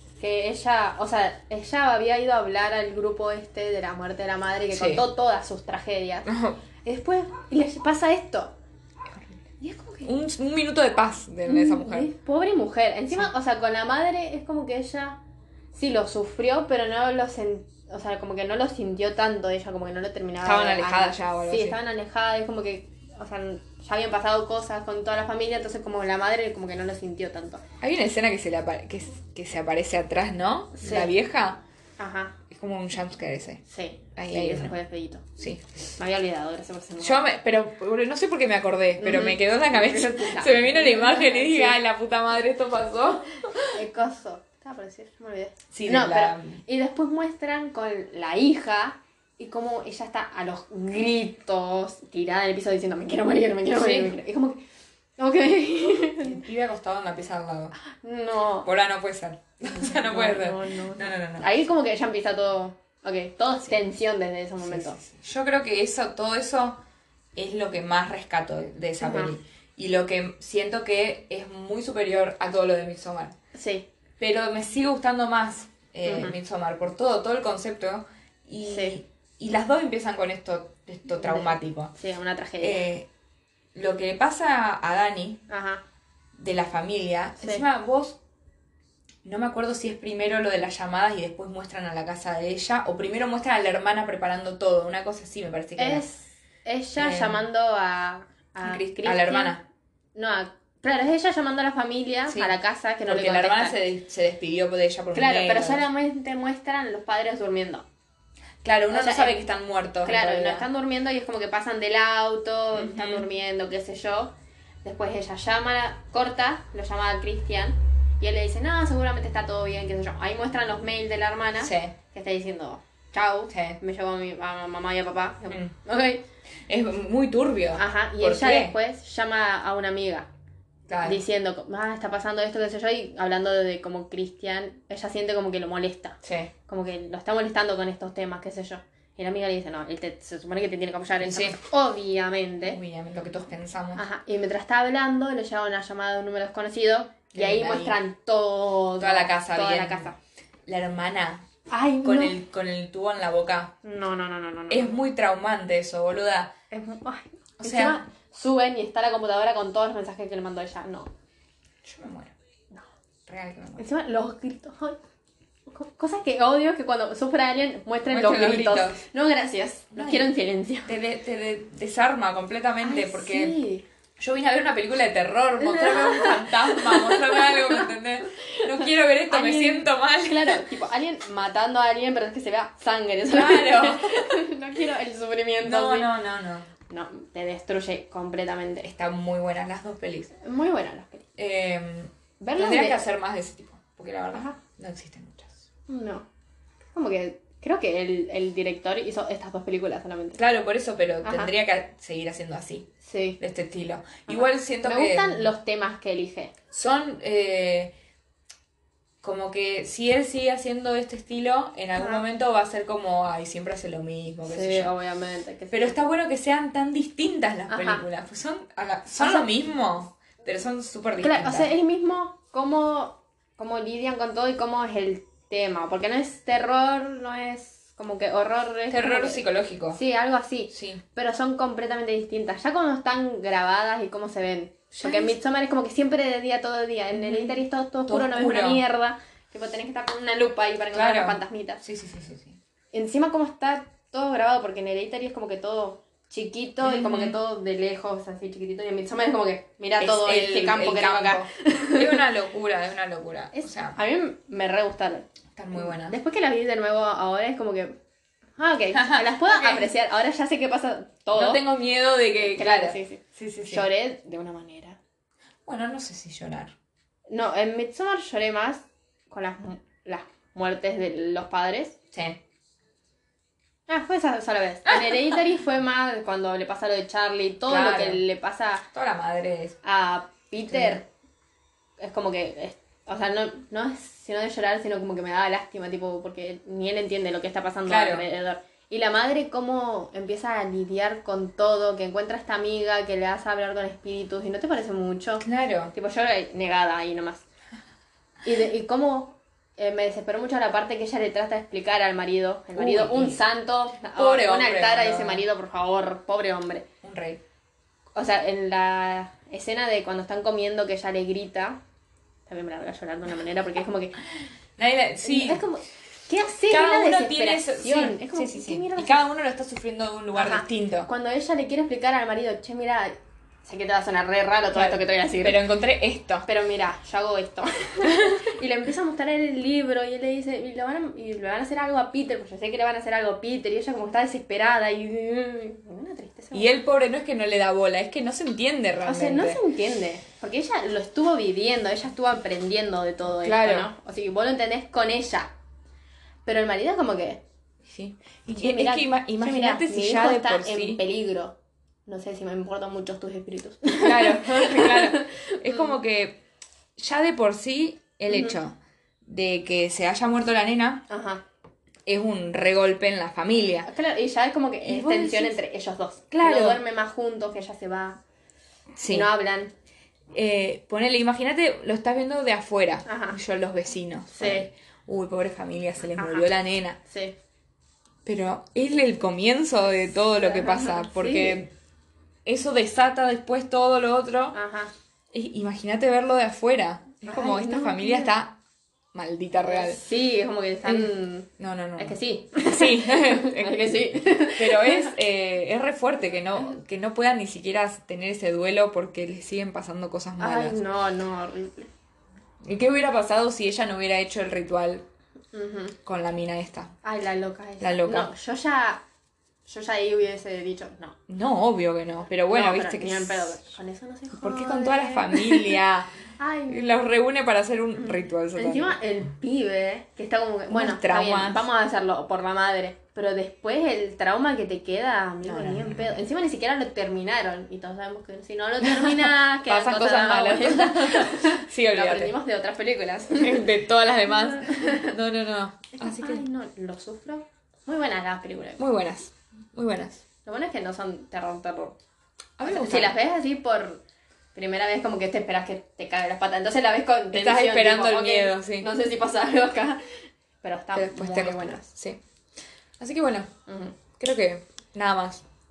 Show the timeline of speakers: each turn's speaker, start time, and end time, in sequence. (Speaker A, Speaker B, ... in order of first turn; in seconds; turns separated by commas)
Speaker A: 0.2-6.3, Speaker B: 4.7-5.0, Speaker B: 6.3-6.6, Speaker A: 6.8-8.6, Speaker A: 9.6-10.1, Speaker B: 10.1-12.1, Speaker A: 11.4-15.2, Speaker A: 15.7-27.6, Speaker B: 20.4-21.8, Speaker B: 27.8-31.6, Speaker A: 30.8-31.1, Speaker A: 32.0-32.4, Speaker B: 32.5-33.6, Speaker A: 33.7-35.2, Speaker B: 34.2-34.8, Speaker B: 35.4-35.6, Speaker A: 36.0-37.3, Speaker B: 37.0-43.7, Speaker A: 39.0-41.8, Speaker A: 43.7-54.6, Speaker B: 45.7-46.6, Speaker B: 53.7-54.2, Speaker A: 55.2-56.5, Speaker B: 56.2-57.7, Speaker A: 57.8-58.7, Speaker B: 58.6-61.5, Speaker A: 59.7-65.0, Speaker B: 64.6-66.8, Speaker B: 67.3-73.3, Speaker A: 69.0-69.3, Speaker A: 73.5-73.9, Speaker B: 74.2-81.9, Speaker A: 76.1-76.4, Speaker A: 78.6-79.0, Speaker A: 81.2-82.8, Speaker B: 82.6-83.1, Speaker B: 83.7-85.5, Speaker A: 85.5-85.8, Speaker B: 86.4-88.2, Speaker B: 89.2-96.0, Speaker A: 95.8-99.6, Speaker B: 97.0-97.4, Speaker B: 98.6-99.7, Speaker A: 100.2-103.8, Speaker B: 102.3-105.8, Speaker A: 105.1-107.9, Speaker B: 108.6-110.7, Speaker A: 108.9-109.4, Speaker A: 110.0-126.2, Speaker B: 112.7-113.2, Speaker B: 121.6-122.0, Speaker B: 123.5-123.8, Speaker B: 126.7-128.8, Speaker A: 127.7-130.3, Speaker B: 130.9-131.2, Speaker A: 131.0-142.8, Speaker B: 136.2-136.5, Speaker B: 141.2-141.6, Speaker B: 142.7-144.1, Speaker A: 144.0-150.2, Speaker B: 147.3-148.0, Speaker B: 149.0-150.1, Speaker B: 150.7-151.5, Speaker A: 151.7-152.4, Speaker B: 152.0-153.8, Speaker A: 153.8-155.0, Speaker B: 154.7-156.6, Speaker A: 156.7-161.1, Speaker B: 157.6-158.0, Speaker B: 161.8-162.3, Speaker B: 163.3-163.9, Speaker A: 163.8-165.0, Speaker A: 165.7-171.0, Speaker B: 168.1-169.0, Speaker B: 169.9-170.3, Speaker B: 170.9-173.6, Speaker A: 172.8-173.9, Speaker B: 174.2-180.7, Speaker A: 175.6-177.9, Speaker A: 178.5-186.1, Speaker B: 183.3-184.3, Speaker B: 185.6-186.7, Speaker A: 186.9-188.9, Speaker B: 188.8-190.3, Speaker A: 190.4-191.3, Speaker B: 191.4-195.7, Speaker A: 192.4-193.1, Speaker A: 194.3-194.6, Speaker A: 195.9-196.3, Speaker A: 196.9-200.4, Speaker B: 200.4-205.5, Speaker A: 201.2-201.5, Speaker A: 203.0-203.4, Speaker A: 204.3-206.5, Speaker B: 206.7-207.9, Speaker B: 209.2-214.9, Speaker A: 212.0-212.2, Speaker A: 214.4-216.0, Speaker B: 215.7-221.7, Speaker A: 217.7-218.1, Speaker A: 219.2-219.5, Speaker A: 221.2-241.8, Speaker B: 228.9-230.0, Speaker B: 230.7-231.0, Speaker B: 234.9-235.4, Speaker B: 237.2-237.6, Speaker B: 238.1-238.8, Speaker B: 240.9-242.6, Speaker A: 242.9-252.2, Speaker B: 246.8-247.4, Speaker B: 250.0-254.0, Speaker A: 253.5-257.9, Speaker B: 255.6-256.2, Speaker A: 258.6-261.6, Speaker B: 258.9-259.9, Speaker B: 261.4-263.9, Speaker A: 262.5-265.0, Speaker B: 265.6-266.8, Speaker A: 267.3-272.0, Speaker B: 272.1-272.4, Speaker A: 273.9-278.9, Speaker B: 274.9-275.4, Speaker B: 277.7-278.2, Speaker B: 278.9-279.8, Speaker A: 279.8-281.1, Speaker B: 280.7-281.0, Speaker A: 282.0-297.4, Speaker B: 287.9-288.3, Speaker B: 295.4-295.9, Speaker A: 298.4-306.9, Speaker B: 302.8-303.4, Speaker B: 304.1-305.5, Speaker B: 307.0-307.4, Speaker A: 308.1-311.8, Speaker A: 312.5-314.2, Speaker B: 314.8-315.7, Speaker A: 315.2-319.2, Speaker B: 316.7-321.1, Speaker A: 320.3-323.1, Speaker A: 323.6-325.7, Speaker B: 324.7-326.5, Speaker A: 326.5-336.8, Speaker B: 328.0-328.5, Speaker B: 336.5-339.6, Speaker A: 339.1-345.5, Speaker B: 343.4-343.9, Speaker A: 346.5-347.4, Speaker B: 347.9-351.0, Speaker A: 348.5-356.0, Speaker B: 354.0-356.4, Speaker B: 357.0-361.1, Speaker A: 358.3-358.6, Speaker A: 361.1-361.4, Speaker B: 362.1-363.9, Speaker A: 363.8-368.2, Speaker B: 364.8-365.6, Speaker B: 366.3-366.8, Speaker B: 369.0-369.3, Speaker A: 369.1-369.7, Speaker B: 370.3-377.0, Speaker A: 373.1-373.4, Speaker A: 374.3-374.7, Speaker A: 376.2-376.5, Speaker A: 377.1-377.4, Speaker B: 378.2-381.7, Speaker A: 380.3-381.6, Speaker B: 382.4-384.6, Speaker A: 384.5-384.9, Speaker B: 385.3-388.6, Speaker A: 387.3-388.3, Speaker B: 389.1-390.0, Speaker A: 389.6-395.1, Speaker B: 390.9-400.8, Speaker A: 400.4-401.9, Speaker B: 402.6-405.1, Speaker A: 405.5-406.0, Speaker B: 406.1-406.9, Speaker A: 407.0-409.1, Speaker B: 407.8-408.3, Speaker A: 409.7-411.2, Speaker B: 411.3-413.7, Speaker A: 412.5-415.8, Speaker B: 414.3-416.1, Speaker A: 416.4-417.1, Speaker B: 416.7-419.0, Speaker A: 418.0-435.1, Speaker B: 420.7-421.7, Speaker B: 425.4-426.2, Speaker B: 428.8-432.4, Speaker B: 433.4-436.4, Speaker A: 435.9-438.8, Speaker B: 438.8-440.2, Speaker A: 440.4-442.0, Speaker B: 442.6-443.2, Speaker A: 442.6-444.0, Speaker A: 444.6-450.0, Speaker B: 447.3-448.9, Speaker A: 450.6-451.8, Speaker B: 450.9-452.2, Speaker B: 453.0-453.5, Speaker A: 453.7-453.9, Speaker B: 454.2-455.4